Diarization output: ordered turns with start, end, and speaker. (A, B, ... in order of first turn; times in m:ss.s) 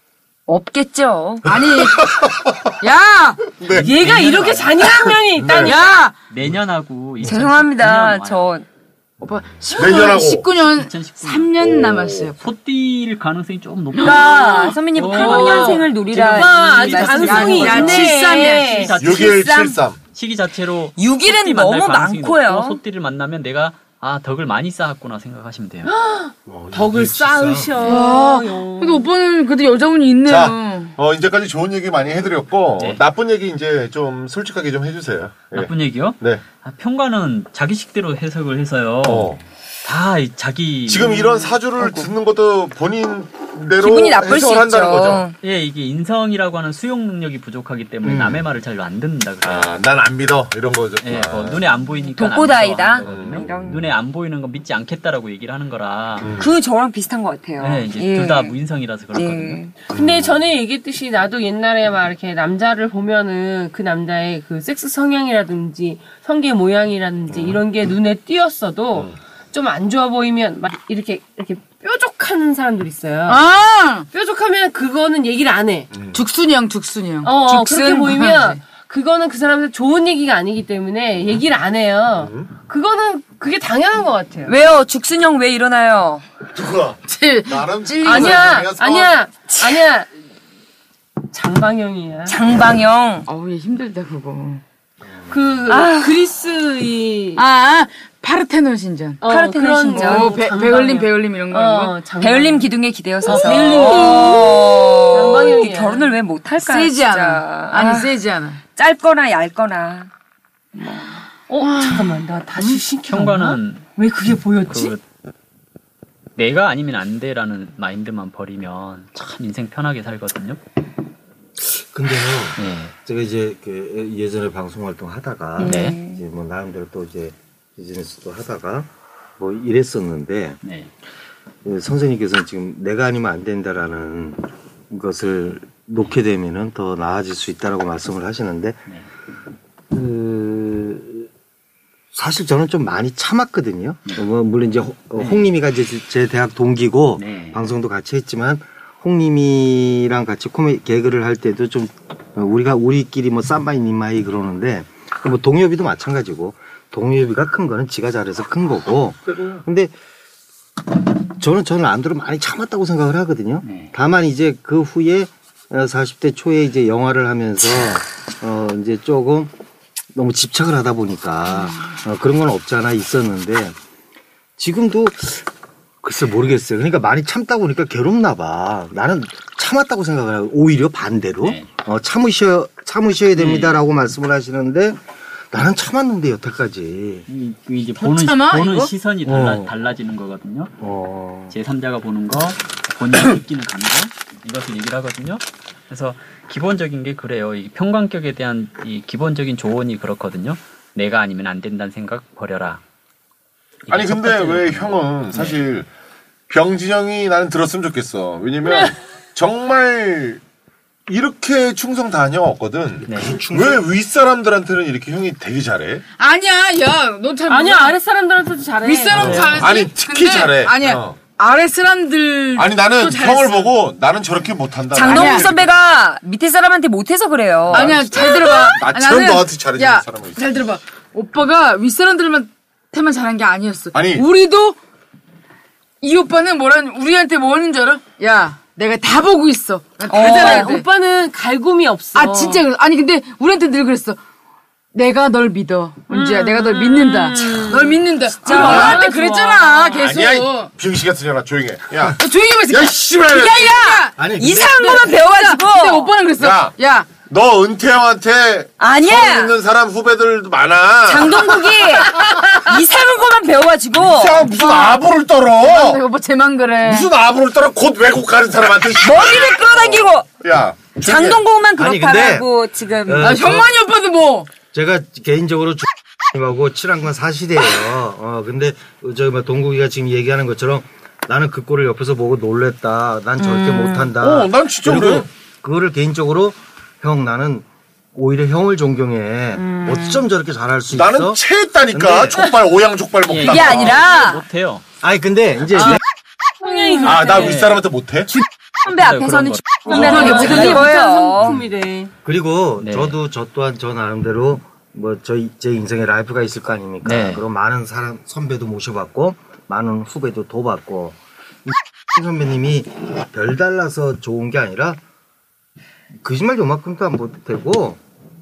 0:00.5-0:01.5 A
0:01.4-0:02.1 B
0:01.5-0:02.8 C
0:02.8-0:03.5 B
0:03.5-0:05.8 C
0:03.7-0:04.7 D
0:03.7-0:05.9 E
0:05.6-0:06.1 B
0:06.3-0:08.5 D
0:07.2-0:08.6 A
0:09.2-0:12.4 B
0:09.7-0:10.5 C
0:10.5-0:11.5 D
0:11.6-0:12.3 C
0:12.4-0:19.5 D
0:14.0-0:14.5 B
0:14.0-0:19.8 A
0:15.0-0:19.0 E
0:17.3-0:19.0 B
0:19.0-0:20.0 C
0:20.1-0:25.9 D
0:21.0-0:22.8 A
0:25.9-0:29.1 E
0:26.5-0:27.8 F
0:27.8-0:30.9 B
0:30.2-0:36.4 C
0:35.5-0:41.3 D
0:39.0-0:39.4 C
0:40.9-0:45.3 C
0:41.8-0:42.1 A
0:43.8-0:45.4 A
0:45.4-0:49.8 D
0:48.0-0:48.5 F
0:49.4-0:51.6 C
0:51.0-0:56.3 D
0:52.2-0:53.9 A
0:53.0-0:53.6 C
0:56.2-0:56.5 C
0:56.3-0:58.6 A
0:57.6-0:59.6 D
0:59.1-0:59.8 A
0:59.9-1:13.4 E
1:13.3-1:14.1 B
1:14.1-1:15.9 E
1:15.9-1:16.2 C
1:16.1-1:18.6 B
1:17.2-1:24.6 E
1:17.6-1:18.2 A
1:22.2-1:22.5 C
1:24.5-1:26.2 A
1:26.5-1:29.2 C
1:27.1-1:28.7 B
1:28.0-1:30.1 E
1:29.5-1:29.8 A
1:31.3-1:32.4 E
1:32.3-1:33.3 A
1:33.3-1:34.6 B
1:35.1-1:35.6 F
1:35.3-1:37.4 E
1:35.7-1:36.2 A
1:37.4-1:39.2 B
1:39.2-1:42.7 E
1:39.2-1:40.4 A
1:39.9-1:42.0 B
1:42.2-1:48.2 A
1:43.2-1:46.2 E
1:43.2-1:45.6 B
1:46.6-1:48.6 B
1:48.7-1:50.1 A
1:50.8-1:51.2 A
1:51.5-1:55.0 E
1:51.6-1:52.8 B
1:53.1-1:53.9 D
1:54.7-1:55.0 D
1:56.4-2:00.6 D
2:01.6-2:10.6 F
2:02.6-2:02.9 D
2:05.6-2:06.2 A
2:05.6-2:06.0 D
2:10.6-2:10.9 D
2:11.6-2:18.8 F
2:19.9-2:21.3 F
2:22.1-2:39.9 F
2:25.2-2:25.5 D
2:27.2-2:27.6 D
2:39.3-2:39.6 C
2:41.4-2:49.5 F
2:43.6-2:43.9 D
2:50.1-2:53.8 F
2:54.6-2:55.5 F
2:56.0-3:07.2 F
3:01.4-3:01.7 D
3:03.4-3:03.8 D
3:07.3-3:10.7 D
3:08.0-3:08.9 B
3:09.2-3:09.7 F
3:10.8-3:11.6 F
3:11.5-3:22.8 D
3:23.9-3:25.6 D
3:23.9-3:25.9 C
3:26.5-3:30.4 C
3:28.6-3:28.9 E
3:31.1-3:36.0 C
3:33.0-3:33.9 F
3:33.1-3:33.4 D
3:36.2-3:38.0 B
3:37.5-3:39.6 E
3:38.8-3:43.7 B
3:39.1-3:41.2 C
3:39.2-3:39.6 D
3:42.6-3:45.7 C
3:44.9-3:48.0 A
3:45.1-3:45.5 B
3:47.7-3:50.5 C
3:47.7-3:54.8 B
3:53.9-3:54.3 C
3:56.0-4:00.9 B
4:00.1-4:00.8 A
4:00.1-4:02.6 E
4:02.2-4:04.2 B
4:04.9-4:10.7 B
4:06.1-4:06.5 A
4:06.2-4:10.0 E
4:08.4-4:09.1 A
4:08.6-4:09.0 C
4:10.0-4:13.9 C
4:12.2-4:17.1 B
4:13.3-4:16.2 A
4:14.2-4:15.1 F
4:16.4-4:21.8 C
4:18.8-4:19.6 A
4:21.1-4:24.5 A
4:24.0-4:26.0 C
4:25.6-4:27.1 B
4:26.8-4:31.4 C
4:29.0-4:30.3 A
4:30.9-4:33.6 A
4:31.8-4:32.5 F
4:33.0-4:33.7 F
4:33.2-4:34.5 B
4:34.7-4:52.4 F
4:43.4-4:44.1 A
4:44.2-4:45.3 C
4:49.6-4:50.2 A
4:50.9-4:54.1 C
4:53.3-4:54.8 D
4:53.4-4:54.4 A
4:55.0-4:56.0 F
4:56.6-4:57.7 E
4:56.6-4:57.2 A
4:57.0-4:58.3 C
4:57.3-4:57.8 D
4:58.8-5:01.6 A
4:58.8-5:00.8 D
4:59.9-5:02.1 E
4:59.9-5:00.9 B
5:02.2-5:15.0 F
5:02.8-5:03.2 D
5:07.0-5:07.4 D
5:16.2-5:18.0 F